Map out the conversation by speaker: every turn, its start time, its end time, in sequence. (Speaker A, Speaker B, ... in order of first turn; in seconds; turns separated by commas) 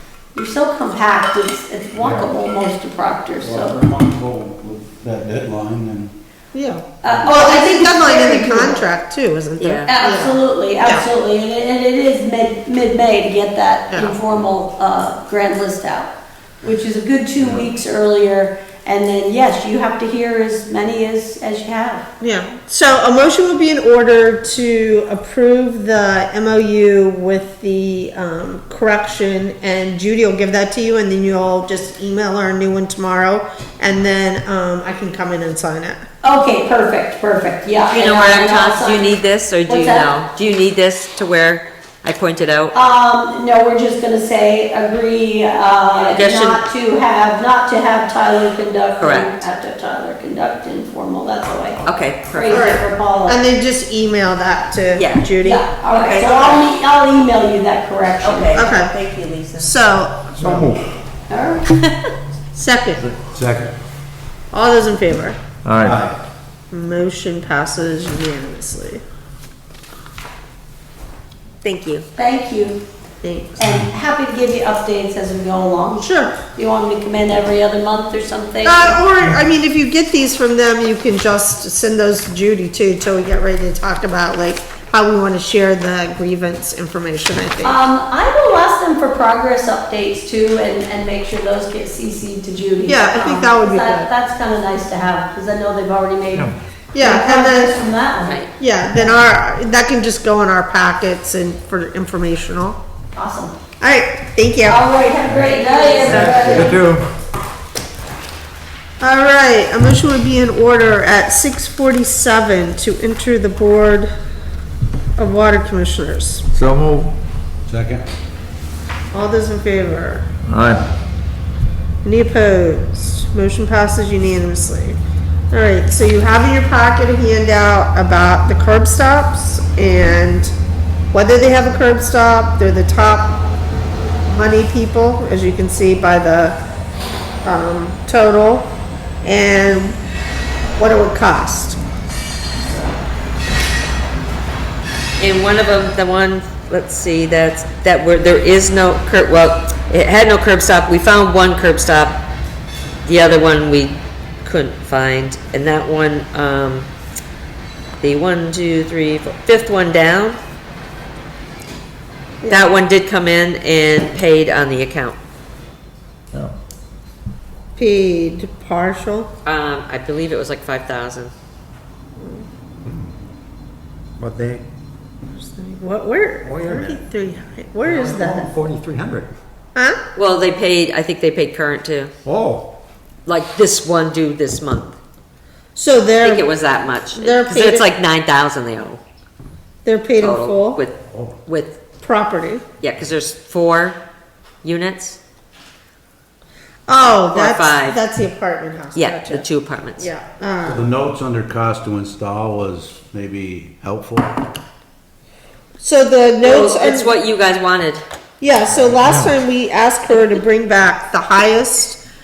Speaker A: 0.3-3.8, Speaker B: 2.0-2.3, Speaker B: 3.4-6.1, Speaker C: 6.5-11.1, Speaker A: 7.0-8.8, Speaker B: 7.1-7.4, Speaker D: 9.6-9.9, Speaker A: 9.9-22.1, Speaker C: 13.9-14.2, Speaker B: 17.4-17.7, Speaker C: 22.2-36.0, Speaker A: 36.2-39.2, Speaker D: 37.9-42.7, Speaker A: 39.7-40.1, Speaker A: 42.7-53.4, Speaker D: 46.1-46.6, Speaker D: 49.0-49.3, Speaker D: 51.9-52.6, Speaker C: 52.5-56.6, Speaker D: 55.0-55.3, Speaker A: 55.4-58.7, Speaker D: 55.9-56.5, Speaker D: 58.2-59.7, Speaker C: 58.5-59.0, Speaker C: 59.6-60.8, Speaker E: 60.4-60.7, Speaker A: 61.3-61.9, Speaker C: 62.5-63.1, Speaker B: 63.2-63.7, Speaker C: 64.5-65.4, Speaker E: 65.7-66.0, Speaker B: 65.8-66.1, Speaker C: 66.7-69.0, Speaker D: 71.6-72.0, Speaker A: 72.2-72.8, Speaker C: 73.2-73.7, Speaker A: 73.6-79.0, Speaker C: 76.0-76.3, Speaker C: 78.7-87.8, Speaker A: 87.6-99.2, Speaker C: 92.8-94.1, Speaker C: 96.9-97.8, Speaker D: 98.2-98.5, Speaker C: 98.6-102.8, Speaker A: 103.2-103.6, Speaker C: 103.8-104.8, Speaker A: 104.7-106.9, Speaker E: 106.1-107.1, Speaker C: 106.1-106.8, Speaker B: 106.3-106.8, Speaker C: 109.0-114.1, Speaker C: 115.2-116.4, Speaker E: 116.5-117.1, Speaker B: 117.7-118.1, Speaker C: 119.1-120.2, Speaker E: 120.5-120.8, Speaker C: 122.0-125.0, Speaker C: 125.5-130.5, Speaker C: 131.1-133.4, Speaker C: 134.2-136.6, Speaker C: 137.4-140.0, Speaker C: 140.8-141.8, Speaker D: 145.2-152.2, Speaker D: 153.0-156.9, Speaker D: 158.0-160.4, Speaker C: 162.4-162.7, Speaker D: 162.5-165.2, Speaker C: 167.8-169.3, Speaker D: 169.4-171.3, Speaker C: 172.2-172.4, Speaker F: 174.2-174.6, Speaker C: 175.3-178.5, Speaker F: 176.4-177.0, Speaker F: 177.8-179.3, Speaker C: 179.8-180.0, Speaker D: 180.1-182.1, Speaker F: 182.2-182.7, Speaker D: 183.2-184.9, Speaker C: 185.8-186.5, Speaker D: 186.2-189.0, Speaker C: 187.2-187.9, Speaker C: 189.8-190.8, Speaker D: 190.2-191.8, Speaker C: 192.0-192.6, Speaker D: 192.8-194.0, Speaker D: 194.6-195.2, Speaker C: 196.9-200.8, Speaker D: 197.2-198.0, Speaker D: 198.9-200.1, Speaker B: 200.7-204.3, Speaker C: 205.8-207.1, Speaker D: 206.4-208.0, Speaker C: 208.4-212.0